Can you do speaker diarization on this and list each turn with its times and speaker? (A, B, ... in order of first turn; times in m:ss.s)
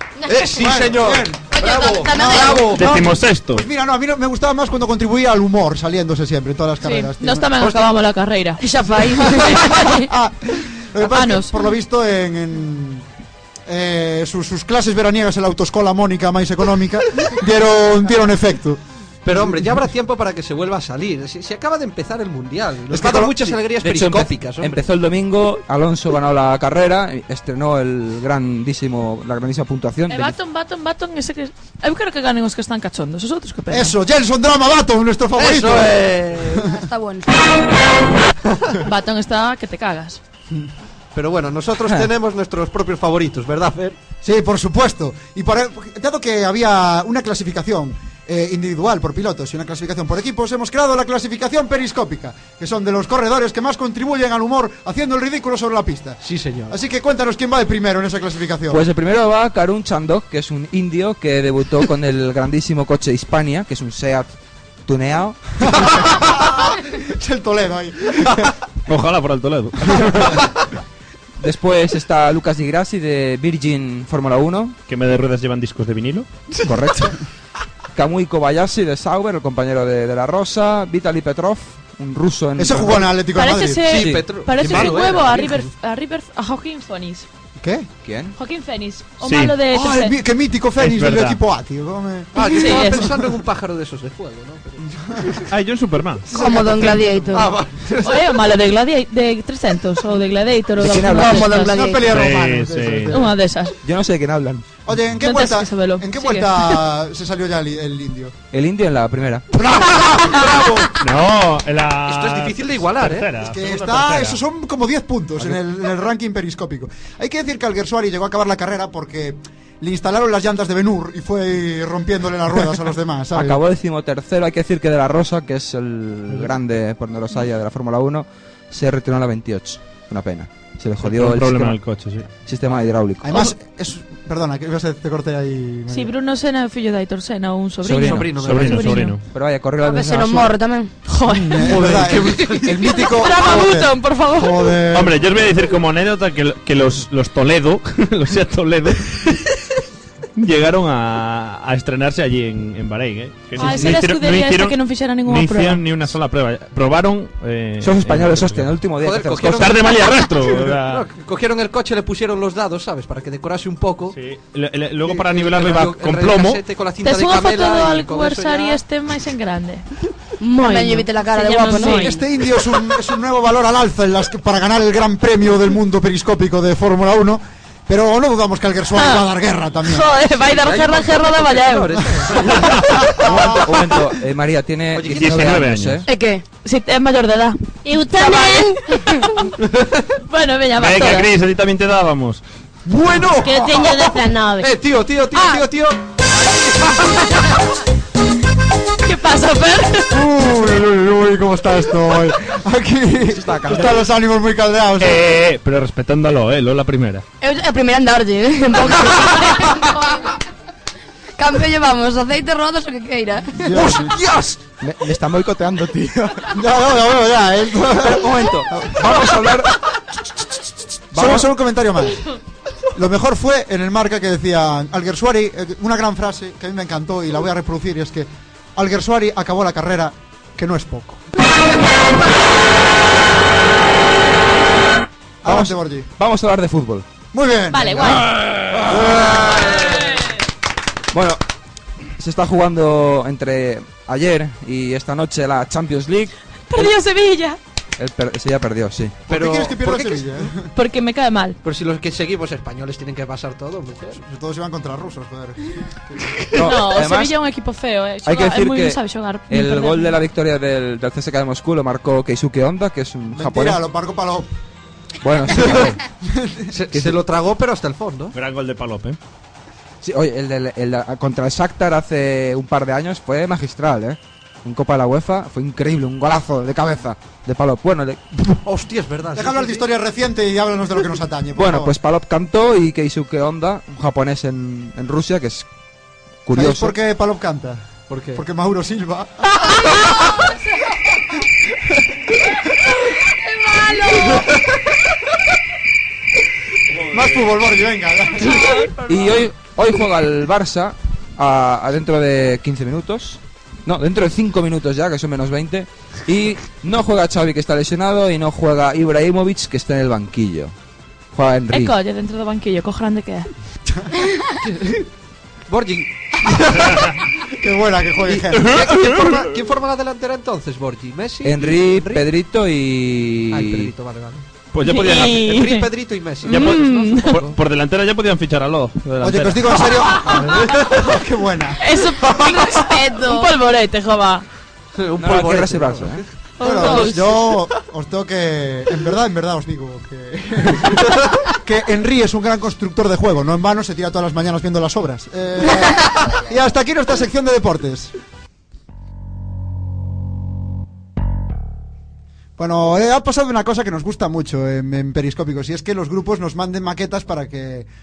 0:00.2-0:03.0 A
0:00.5-0:07.9 B
0:01.5-0:02.9 C
0:02.8-0:03.7 D
0:06.8-0:08.6 E
0:08.6-0:09.8 C
0:09.2-0:13.1 B
0:09.6-0:10.1 E
0:11.0-0:11.6 E
0:13.7-0:18.8 B
0:19.2-0:24.8 A
0:22.9-0:23.6 B
0:23.8-0:30.4 F
0:30.1-0:34.0 E
0:33.7-0:36.6 B
0:35.4-0:36.7 A
0:36.6-0:37.4 C
0:38.8-0:40.2 E
0:41.1-0:44.0 A
0:44.2-0:58.8 B
0:56.2-0:56.8 A
0:58.7-1:04.3 F
1:04.8-1:05.6 F
1:05.6-1:08.5 B
1:08.9-1:10.5 D
1:11.4-1:14.8 F
1:14.9-1:16.3 D
1:16.6-1:17.2 F
1:17.9-1:23.2 F
1:22.6-1:23.9 B
1:23.3-1:27.3 E
1:23.9-1:25.7 A
1:23.9-1:25.0 F
1:27.6-1:27.9 B
1:28.0-1:28.4 F
1:28.4-1:30.2 E
1:29.2-1:29.6 D
1:29.7-1:33.1 B
1:30.8-1:31.4 D
1:32.4-1:35.4 A
1:32.4-1:33.2 E
1:34.9-1:35.4 B
1:35.5-1:36.3 D
1:36.3-1:37.6 C
1:36.3-1:37.4 B
1:37.3-1:38.2 A
1:38.0-1:42.0 E
1:40.8-1:41.6 F
1:41.0-1:42.1 C
1:41.1-1:43.3 B
1:42.0-1:43.2 D
1:43.1-1:43.8 E
1:43.8-1:44.7 F
1:44.9-1:48.3 B
1:45.2-1:46.8 E
1:48.5-1:49.5 F
1:49.5-1:50.7 B
1:50.2-1:51.0 A
1:51.0-1:54.4 D
1:52.1-1:53.3 A
1:53.4-2:03.6 B
2:03.3-2:11.8 F
2:11.0-2:12.3 D
2:12.4-2:13.5 F
2:13.2-2:16.1 B
2:15.9-2:19.2 E
2:17.8-2:18.4 F
2:18.0-2:19.0 A
2:18.4-2:19.2 D
2:19.3-2:20.6 F
2:19.8-2:20.9 C
2:21.1-2:24.8 E
2:21.3-2:25.2 B
2:21.6-2:23.1 A
2:24.9-2:29.4 D
2:30.4-2:38.8 D
2:33.6-2:34.0 F
2:33.6-2:35.9 E
2:37.8-2:39.8 F
2:39.0-2:44.2 A
2:39.4-2:41.1 D
2:44.1-2:46.6 D
2:45.0-2:48.8 A
2:47.0-2:49.9 E
2:50.4-2:52.1 C
2:50.6-2:50.9 G
2:50.6-2:52.2 E
2:51.9-3:00.1 B
2:59.0-2:59.2 E
2:59.8-3:02.0 E
3:00.3-3:02.9 A
3:02.4-3:02.8 D
3:03.2-3:06.1 F
3:03.2-3:03.6 B
3:04.9-3:05.7 A
3:05.1-3:06.0 D
3:06.1-3:06.4 C
3:06.6-3:07.6 E
3:07.8-3:08.8 G
3:08.2-3:08.7 E
3:09.6-3:10.0 A
3:10.3-3:11.3 E
3:10.8-3:12.4 D
3:12.9-3:17.5 A
3:13.2-3:14.7 G
3:15.4-3:15.6 C
3:19.0-3:20.2 E
3:20.1-3:25.4 B
3:23.3-3:24.0 F
3:25.0-3:27.2 D
3:27.4-3:30.3 C
3:31.4-3:33.8 C
3:33.6-3:34.2 B
3:33.7-3:36.6 F
3:36.5-3:39.3 B
3:37.9-3:39.8 F
3:41.1-3:42.3 B
3:41.1-3:41.5 F
3:43.0-3:51.2 B
3:55.4-3:56.1 B
3:55.4-3:57.1 F
3:57.3-3:58.3 B
3:57.7-3:58.3 E
3:58.1-3:59.9 F
3:58.9-3:59.6 B
4:01.1-4:01.4 F
4:02.2-4:07.0 F
4:06.7-4:07.6 E
4:08.0-4:09.2 F
4:09.3-4:10.5 A
4:09.3-4:10.6 B
4:10.7-4:11.6 E
4:11.6-4:14.2 A
4:14.2-4:16.2 B
4:16.5-4:17.4 F
4:16.6-4:20.1 E
4:18.2-4:23.8 F
4:23.3-4:24.5 B
4:25.2-4:26.0 F
4:26.3-4:26.8 B
4:26.7-4:28.4 A
4:28.3-4:29.2 D
4:30.0-4:38.2 F
4:38.6-4:39.9 A
4:39.4-4:42.0 B
4:41.6-4:45.7 F
4:46.4-4:47.0 F
4:46.5-4:50.0 B
4:48.1-4:48.4 A
4:53.6-4:54.4 C
4:57.1-4:58.8 B
4:57.1-4:57.5 D
4:58.5-4:58.9 E
4:59.0-5:10.8 F
5:11.3-5:12.0 F
5:11.7-5:13.5 E
5:14.6-5:15.0 A
5:15.7-5:17.1 A
5:17.5-5:18.8 B
5:18.3-5:22.3 A
5:18.6-5:19.5 D
5:21.4-5:23.9 F
5:23.5-5:27.6 A
5:24.7-5:25.5 D
5:24.8-5:25.9 E
5:26.4-5:27.4 E
5:26.5-5:29.9 D
5:29.2-5:31.8 B
5:30.3-5:31.0 A
5:31.8-5:34.4 E
5:32.3-5:33.5 C
5:35.0-5:36.3 A
5:35.2-5:36.2 F
5:36.6-5:37.6 E
5:36.6-5:48.1 B
5:52.6-5:57.9 B